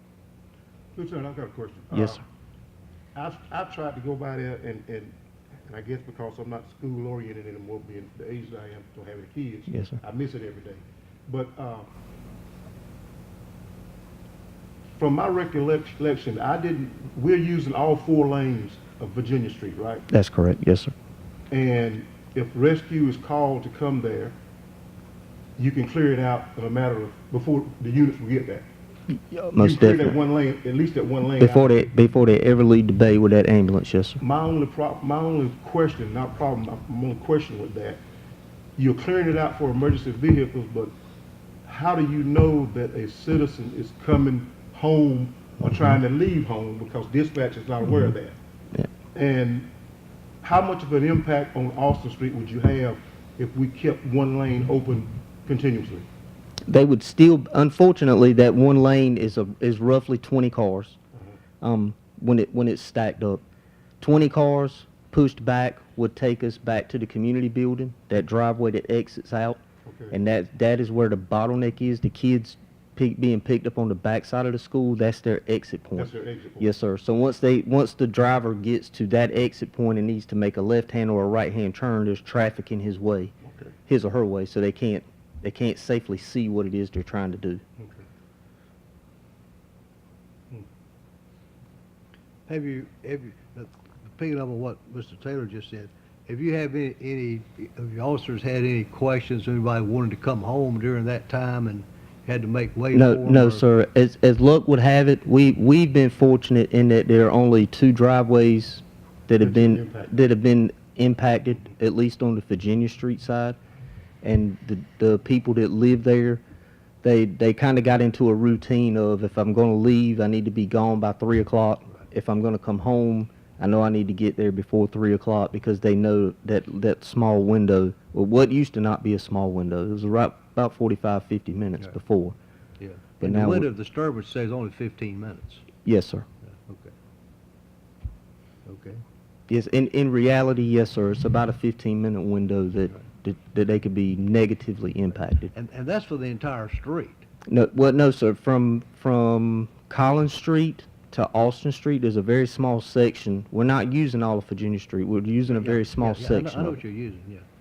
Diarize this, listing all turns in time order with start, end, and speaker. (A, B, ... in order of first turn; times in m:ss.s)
0:00.9-0:02.2 A
0:01.9-0:02.2 B
0:03.2-0:05.1 A
0:05.6-0:11.9 A
0:09.7-0:10.0 B
0:14.9-0:20.0 A
0:20.1-0:20.9 B
0:21.5-0:24.3 A
0:25.6-0:28.7 A
0:29.1-0:30.2 B
0:29.6-0:31.7 A
0:31.4-0:34.2 B
0:34.2-0:38.0 A
0:38.8-0:40.9 A
0:41.6-0:48.4 A
0:49.1-0:49.7 A
0:50.4-0:56.1 A
0:56.7-1:01.0 B
1:01.1-1:01.4 A
1:01.6-1:03.4 B
1:04.0-1:23.3 B
1:09.8-1:10.2 A
1:16.0-1:16.7 A
1:23.4-1:23.8 A
1:23.9-1:27.6 B
1:27.8-1:28.0 A
1:32.5-1:43.6 C
1:42.9-1:53.6 B
1:49.4-1:50.2 A
1:54.2-1:56.4 B
1:57.0-2:12.4 B
2:12.8-2:15.7 C
2:13.2-2:13.7 B
2:15.8-2:16.3 B
2:16.4-2:16.9 C
2:18.6-2:19.0 C
2:19.5-2:25.5 B
2:25.5-2:27.2 C
2:27.5-2:36.8 B
2:35.5-2:37.4 C